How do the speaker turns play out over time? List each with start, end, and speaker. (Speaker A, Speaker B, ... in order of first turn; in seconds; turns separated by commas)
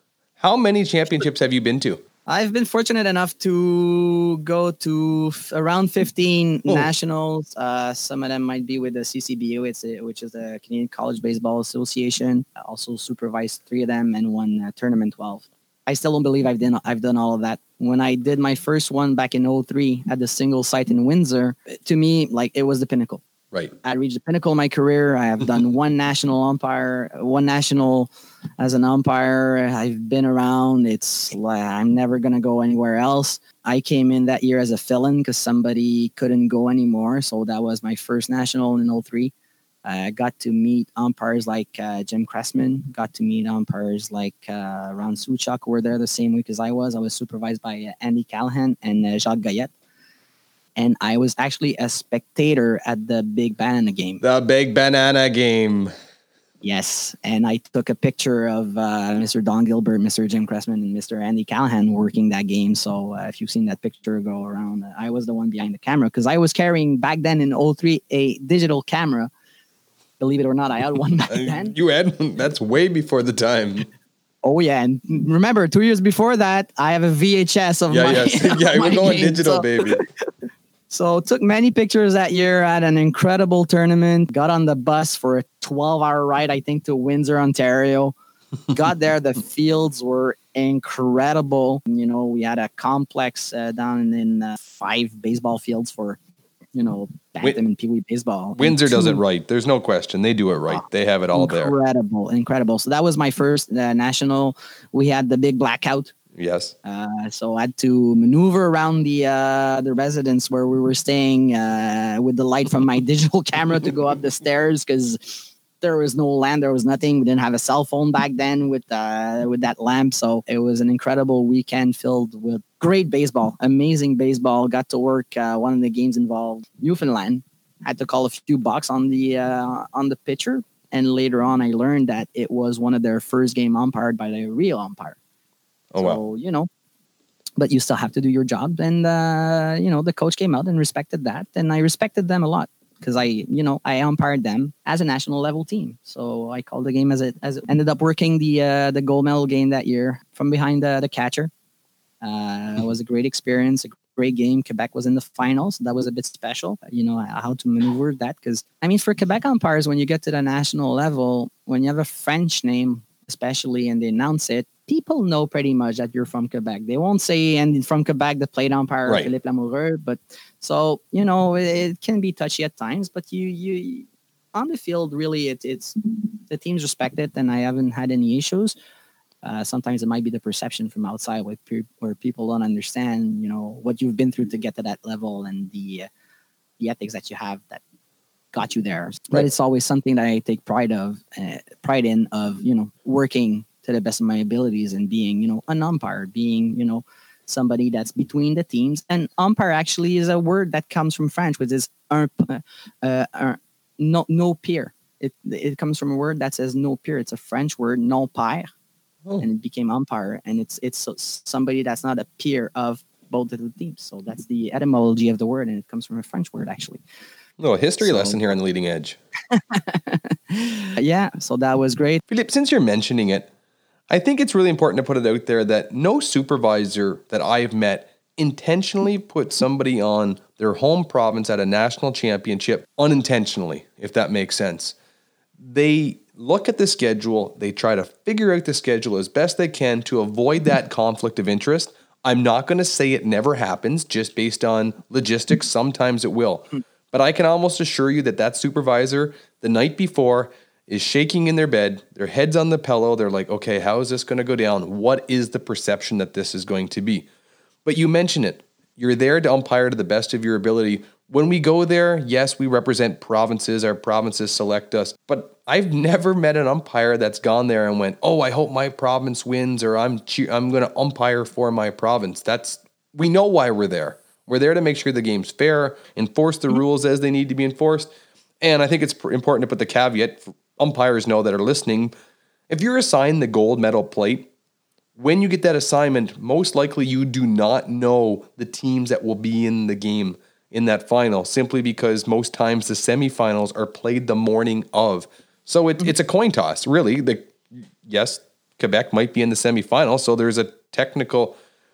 Speaker A: 0.4-2.0, Speaker B: 2.2-23.2, Speaker B: 23.8-39.3, Speaker B: 39.8-49.7, Speaker B: 50.8-54.2, Speaker A: 54.2-55.9, Speaker B: 56.6-69.3, Speaker B: 70.2-71.7, Speaker A: 71.3-73.9, Speaker B: 74.4-80.0, Speaker A: 77.9-80.0, Speaker B: 80.9-88.1, Speaker B: 88.7-96.2, Speaker B: 96.7-99.2, Speaker A: 98.6-101.7, Speaker B: 101.3-106.1, Speaker A: 106.3-106.7, Speaker B: 106.8-135.2, Speaker A: 135.9-136.2, Speaker B: 136.0-136.7, Speaker B: 137.6-151.5, Speaker B: 152.2-178.7, Speaker B: 179.4-186.1, Speaker B: 186.8-187.8, Speaker B: 188.5-208.7, Speaker B: 209.4-217.0, Speaker A: 217.6-219.2, Speaker B: 218.0-218.4, Speaker B: 219.5-222.2, Speaker A: 222.3-223.5, Speaker A: 224.1-234.9, Speaker A: 235.6-257.3, Speaker A: 257.8-278.1, Speaker A: 278.6-282.1, Speaker A: 282.7-284.5, Speaker A: 285.2-301.6